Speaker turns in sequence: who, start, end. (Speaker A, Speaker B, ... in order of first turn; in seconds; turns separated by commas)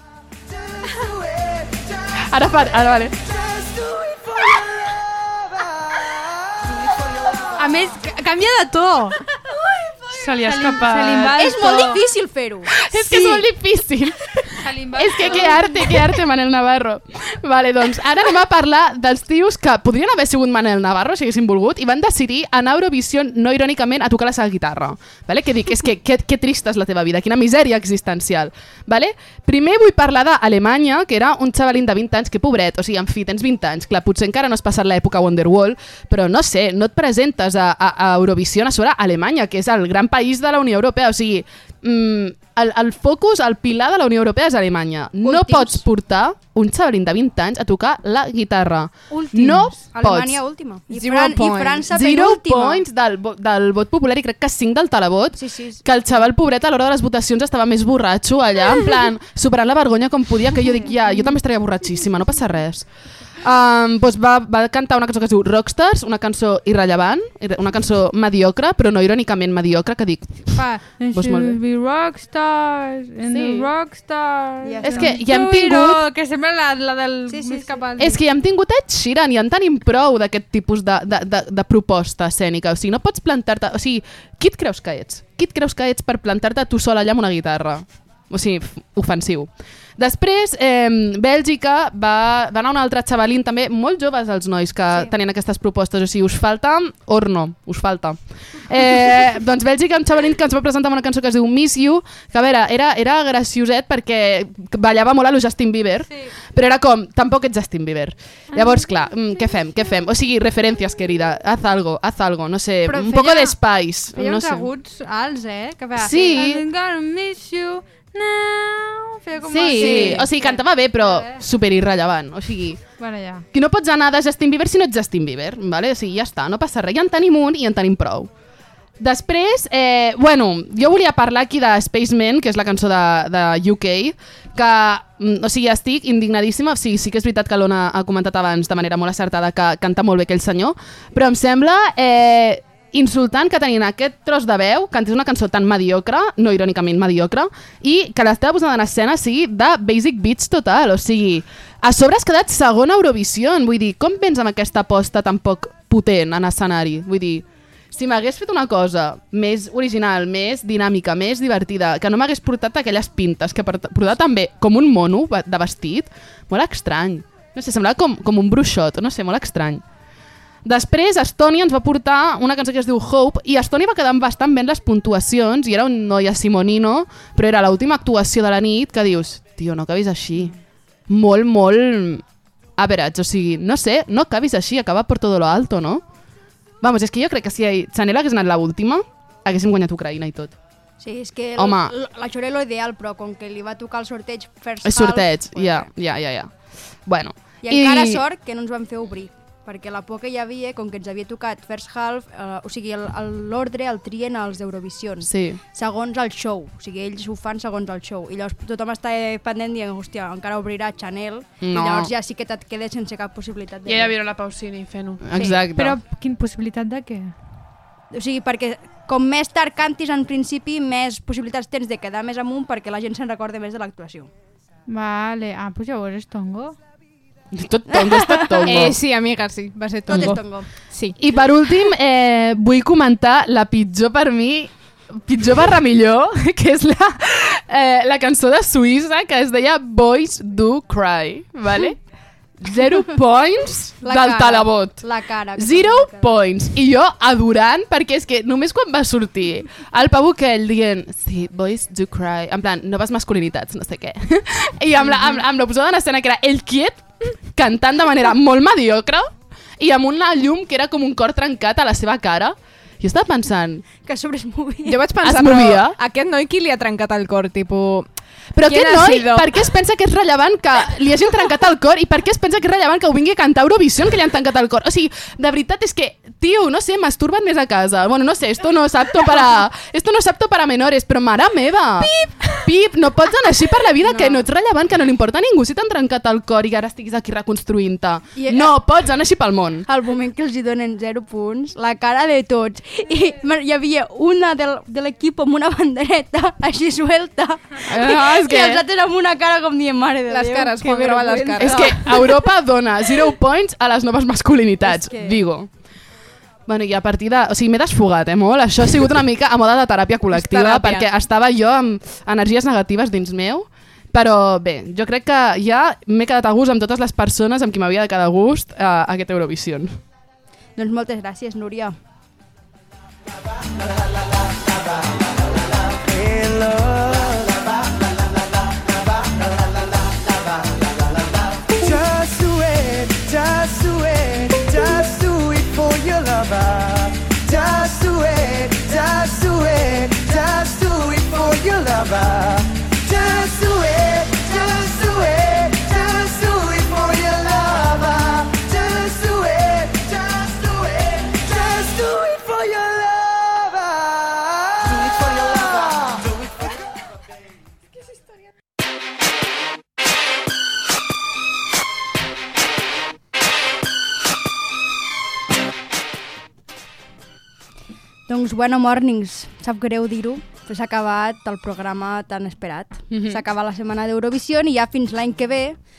Speaker A: 0.5-2.6, Speaker B: 2.3-3.2, Speaker A: 3.2-7.7, Speaker C: 7.6-9.2, Speaker D: 10.1-11.4, Speaker C: 10.3-12.0, Speaker E: 11.3-12.8, Speaker B: 12.8-14.4, Speaker C: 14.6-15.7, Speaker B: 14.9-50.4, Speaker E: 45.2-45.8, Speaker E: 49.3-52.8, Speaker F: 50.9-51.9, Speaker B: 51.9-62.9, Speaker E: 55.4-55.8, Speaker B: 63.4-71.6, Speaker C: 70.5-78.2, Speaker B: 73.3-73.7, Speaker E: 74.6-75.2, Speaker B: 74.8-76.0, Speaker E: 77.3-77.8, Speaker B: 78.0-114.7, Speaker C: 108.5-108.8, Speaker C: 112.9-113.6, Speaker C: 114.1-121.4, Speaker B: 116.0-116.7, Speaker B: 119.5-122.8, Speaker E: 119.8-120.2, Speaker C: 123.0-123.5, Speaker B: 123.5-128.3, Speaker B: 129.0-169.8, Speaker B: 170.6-180.5, Speaker B: 181.1-182.2, Speaker B: 182.8-186.0, Speaker B: 186.8-190.6, Speaker E: 191.0-195.9, Speaker B: 191.6-191.9, Speaker B: 194.8-196.5, Speaker B: 197.1-198.2, Speaker E: 197.6-214.2, Speaker B: 205.2-205.6, Speaker B: 211.6-212.1, Speaker D: 213.9-215.4, Speaker B: 215.2-216.0, Speaker E: 215.4-215.6, Speaker C: 215.8-217.3, Speaker E: 218.1-224.3, Speaker C: 224.9-226.8, Speaker B: 227.5-229.0, Speaker E: 227.9-228.8, Speaker F: 228.7-231.2, Speaker E: 230.1-230.7, Speaker B: 231.2-242.0, Speaker B: 242.6-245.1, Speaker E: 244.0-246.4, Speaker B: 245.6-263.9, Speaker E: 264.0-265.0, Speaker F: 264.9-268.1, Speaker B: 265.2-266.0, Speaker B: 268.5-289.9, Speaker F: 268.6-269.5, Speaker F: 282.0-282.6, Speaker E: 284.0-284.5, Speaker E: 288.4-288.7, Speaker E: 289.9-302.4, Speaker F: 297.9-298.2, Speaker B: 298.0-298.8, Speaker F: 300.3-302.1, Speaker B: 301.6-305.7, Speaker E: 304.8-305.4, Speaker B: 306.7-320.0, Speaker F: 310.3-311.1, Speaker E: 320.8-322.0, Speaker A: 326.0-328.0, Speaker A: 328.8-356.8, Speaker E: 368.3-375.8, Speaker B: 373.1-373.4